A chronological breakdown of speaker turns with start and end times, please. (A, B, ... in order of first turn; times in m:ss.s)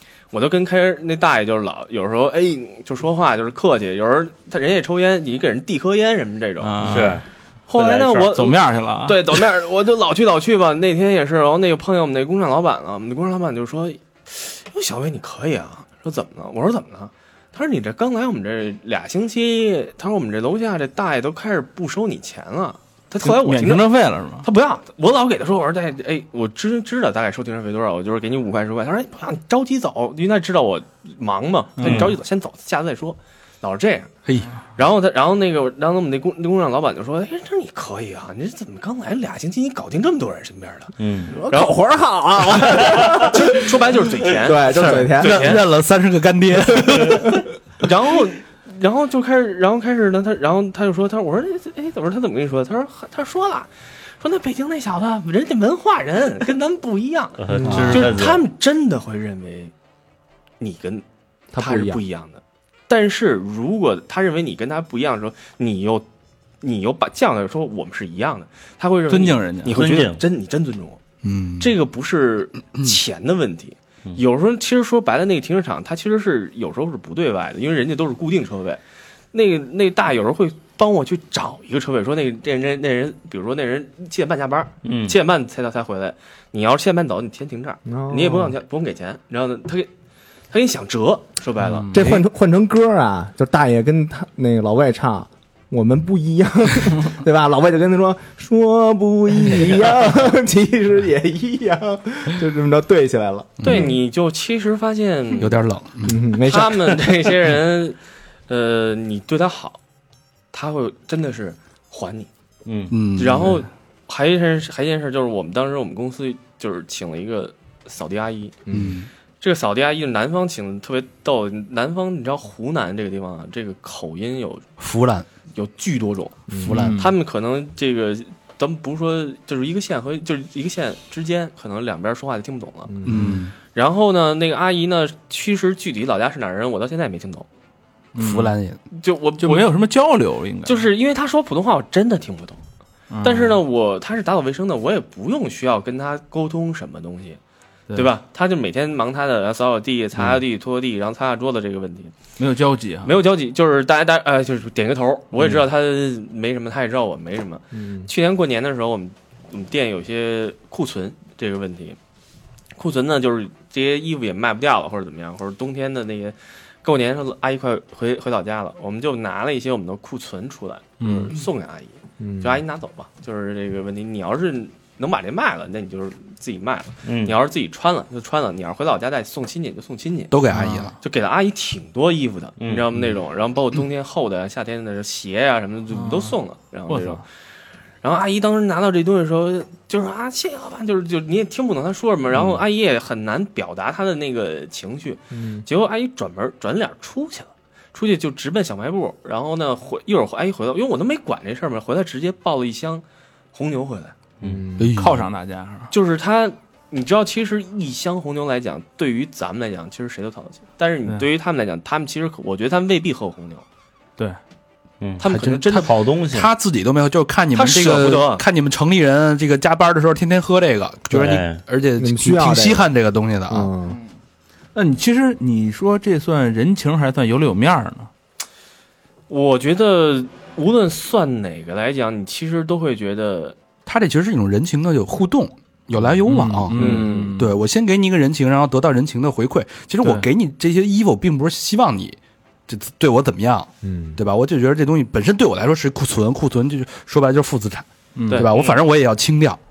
0:00.3-0:34.1 A
0:06.7-0:07.2 B
0:06.8-0:08.3 C
0:08.3-0:09.4 B
0:23.2-0:24.5 B
0:31.8-0:32.1 B
0:31.8-0:32.1 C
0:34.8-0:40.9 A
0:41.0-0:41.4 C
0:41.3-0:45.6 D
0:41.5-0:41.8 A
0:42.6-0:45.6 A
0:44.7-0:47.5 E
0:46.7-0:47.3 D
0:47.8-0:59.7 A
0:57.4-0:58.4 C
0:57.5-0:58.1 D
0:57.7-0:58.0 B
1:00.6-1:01.0 A
1:01.5-1:02.0 D
1:01.6-1:06.0 A
1:06.6-1:11.0 A
1:09.1-1:09.9 B
1:09.7-1:10.2 C
1:11.2-1:11.8 E
1:11.6-1:18.8 A
1:19.3-1:29.9 A
1:24.8-1:25.2 C
1:27.9-1:28.6 D
1:30.5-1:31.9 A
1:31.6-1:32.1 B
1:31.9-1:43.9 D
1:43.6-1:43.9 E
1:43.6-1:45.6 A
1:45.4-1:46.2 E
1:46.0-1:47.5 D
1:46.3-1:48.0 A
1:48.5-1:49.8 A
1:50.5-1:52.3 A
1:52.7-1:52.9 C
1:52.9-1:53.7 E
1:53.2-1:58.6 A
1:58.7-1:59.0 D
1:58.7-1:59.1 E
1:59.4-2:04.7 A
2:04.8-2:05.3 E
2:05.6-2:13.0 A
2:06.5-2:06.9 D
2:06.6-2:07.0 E
2:06.7-2:07.1 B
2:12.9-2:13.4 D
2:13.1-2:13.5 E
2:13.1-2:13.4 B
2:13.7-2:17.5 A
2:18.2-2:18.5 B
2:18.2-2:18.8 E
2:18.9-2:19.7 A
2:19.4-2:20.9 B
2:20.6-2:22.6 A
2:23.1-2:23.6 B
2:23.2-2:27.4 A
2:27.9-2:32.2 A
2:32.4-2:33.2 B
2:33.0-2:42.0 A
2:37.7-2:38.1 D
2:42.8-3:00.3 A
2:51.0-2:51.3 B
2:52.2-2:52.6 D
2:57.0-2:57.4 C
3:00.3-3:00.9 E
3:00.5-3:01.0 B
3:01.0-3:07.2 A
3:02.6-3:03.0 C
3:05.9-3:06.4 B
3:06.9-3:07.2 B
3:08.0-3:24.1 A
3:15.3-3:15.7 D
3:24.4-3:25.0 D
3:24.8-3:25.3 E
3:25.0-3:25.9 B
3:25.9-3:33.6 A
3:35.0-3:36.5 C
3:35.2-3:35.9 A
3:35.2-3:43.7 E
3:37.5-3:38.4 A
3:41.1-3:41.6 C
3:42.0-3:42.9 D
3:43.5-3:44.0 D
3:44.7-3:48.1 B
3:49.3-3:53.6 A
3:53.9-4:09.6 E
3:56.0-3:57.2 D
3:56.3-3:57.6 B
3:56.8-3:57.3 A
4:03.8-4:04.2 D
4:08.2-4:08.5 B
4:08.5-4:08.8 C